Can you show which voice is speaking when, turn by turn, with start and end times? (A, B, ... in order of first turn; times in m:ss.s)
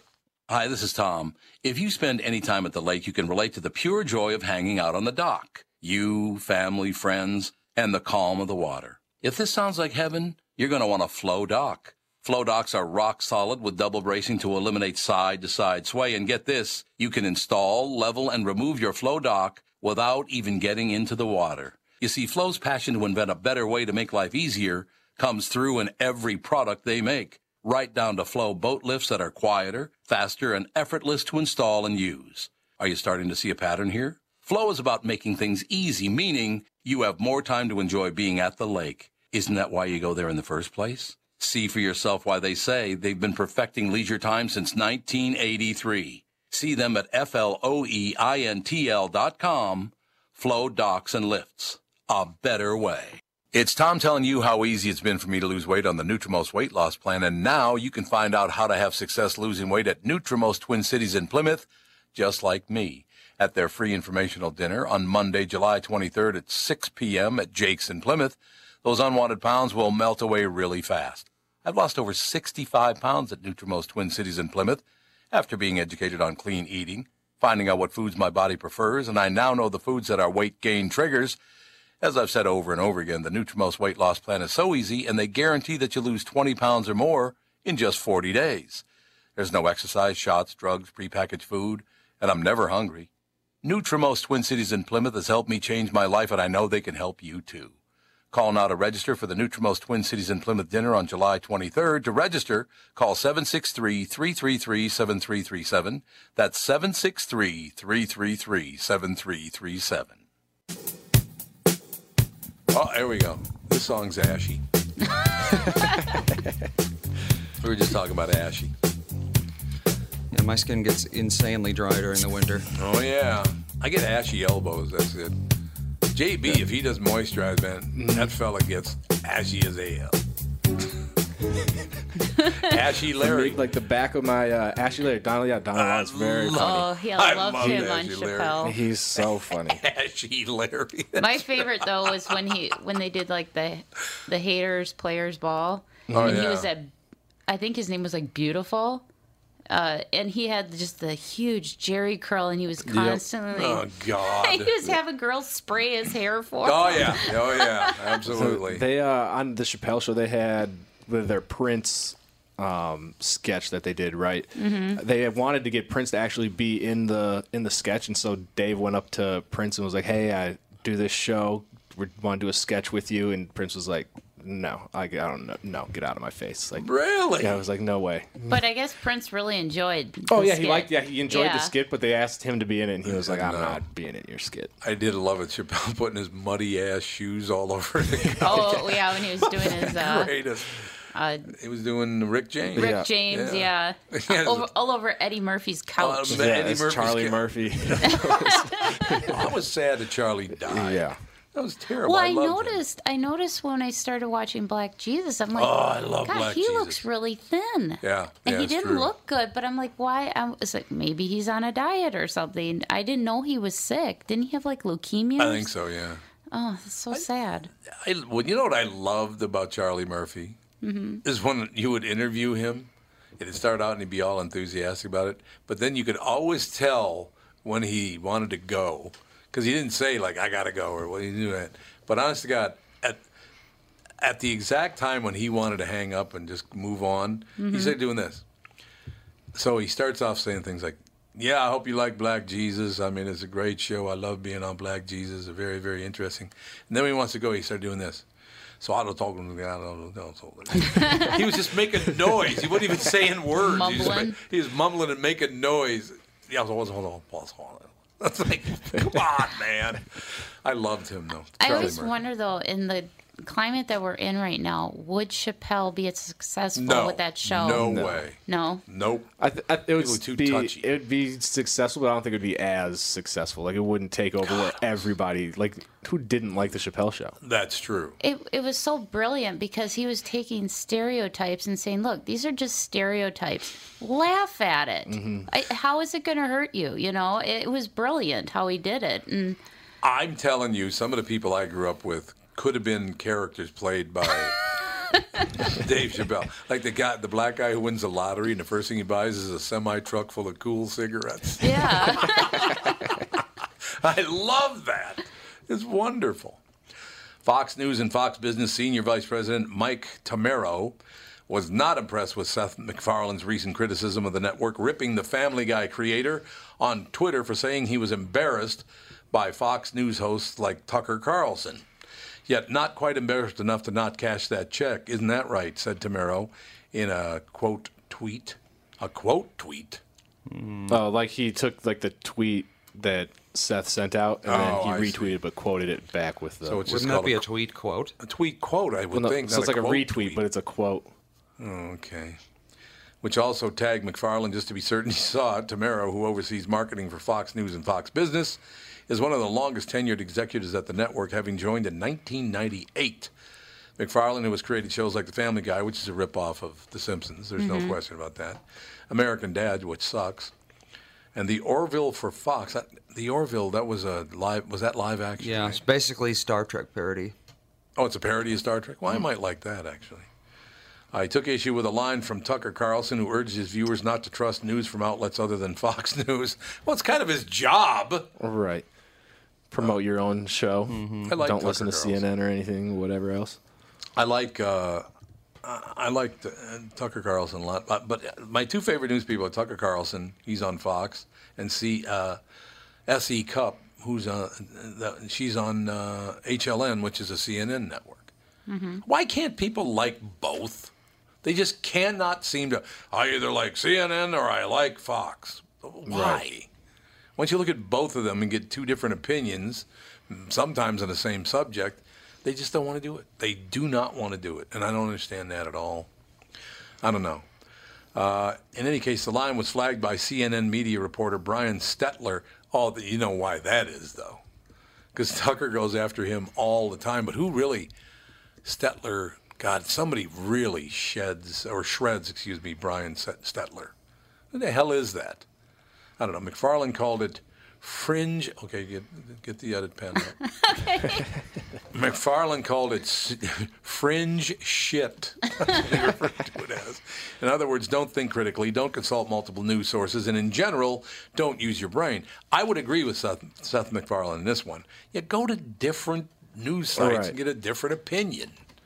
0:00.5-1:21.4 A
1:22.0-1:28.8 A
1:29.4-1:33.1 A
1:33.6-1:37.7 A
1:38.3-1:50.2 A
1:52.7-1:54.6 B
1:55.1-1:56.2 C
1:57.6-1:58.7 B
2:00.3-2:02.7 D
2:02.7-2:05.4 B
2:06.1-2:10.2 B
2:07.9-2:08.3 E
2:12.3-2:12.6 C
2:12.6-2:13.6 B
2:13.2-2:16.9 E
2:15.7-2:22.6 B
2:16.5-2:18.8 C
2:17.5-2:18.0 E
2:18.6-2:19.8 E
2:21.2-2:26.9 C
2:26.1-2:26.5 E
2:26.1-2:26.7 B
2:27.5-2:29.0 C
2:29.7-2:38.2 C
2:32.8-2:33.2 E
2:33.5-2:34.8 B
2:36.6-2:38.9 B
2:38.2-2:56.9 E
2:44.6-2:45.0 C
2:56.8-2:57.6 B
2:57.4-2:58.4 E
2:58.5-3:01.7 C
3:00.3-3:04.7 E
3:03.0-3:03.8 B
3:04.8-3:14.7 B
3:08.4-3:10.4 C
3:09.6-3:10.0 E
3:11.1-3:11.5 C
3:12.7-3:13.1 E
3:12.7-3:16.6 C
3:16.0-3:18.6 B
3:16.3-3:19.5 E
3:18.0-3:19.3 C
3:19.2-3:22.8 B
3:20.6-3:21.2 E
3:22.0-3:35.7 C
3:25.5-3:27.0 B
3:28.0-3:29.1 B
3:35.4-3:36.2 B
3:36.5-3:37.7 C
3:38.0-3:40.6 B
3:40.8-3:41.2 C
3:41.2-3:53.2 B
3:54.2-3:58.4 B
3:57.6-3:58.0 C
3:59.5-4:08.2 B
4:08.8-4:22.1 B
4:10.9-4:11.4 C
4:13.6-4:14.4 C
4:21.6-4:28.8 C
4:26.7-4:29.3 B
4:27.6-4:28.2 E
4:29.4-4:37.4 E
4:30.0-4:30.9 B
4:37.4-4:38.2 B
4:38.2-4:49.6 C
4:45.1-4:45.5 E
4:50.0-4:54.6 B
4:54.7-4:55.5 C
4:55.6-5:03.4 B
5:01.6-5:03.1 C
5:04.0-5:06.6 B
5:07.4-5:11.0 B
5:11.5-5:21.8 B
5:22.5-5:30.0 B
5:30.4-5:31.0 D
5:30.9-5:37.1 E
5:34.4-5:35.4 B
5:36.6-5:37.4 B
5:36.9-5:38.2 D
5:38.2-5:40.4 B
5:39.1-5:41.1 E
5:41.6-5:42.4 B
5:43.2-5:53.3 B
5:54.0-6:00.5 B
5:57.6-5:58.0 C
6:01.3-6:05.8 B
6:05.4-6:07.3 D
6:08.0-6:10.3 B
6:11.1-6:18.3 B
6:18.4-6:18.8 E
6:19.7-6:23.6 E
6:20.9-6:21.3 D
6:21.3-6:22.2 B
6:24.2-6:25.1 B
6:25.6-6:32.4 B
6:33.1-6:38.3 B
6:38.7-6:39.0 C
6:39.0-6:40.9 B
6:41.4-6:46.7 B
6:46.1-6:46.5 E
6:47.4-6:56.1 B
6:57.0-6:57.4 B
6:58.1-7:04.4 B
7:05.1-7:07.9 B
7:08.6-7:13.9 B
7:14.5-7:15.4 B
7:16.2-7:20.4 B
7:20.6-7:21.2 C
7:21.9-7:38.6 B
7:37.0-7:37.4 E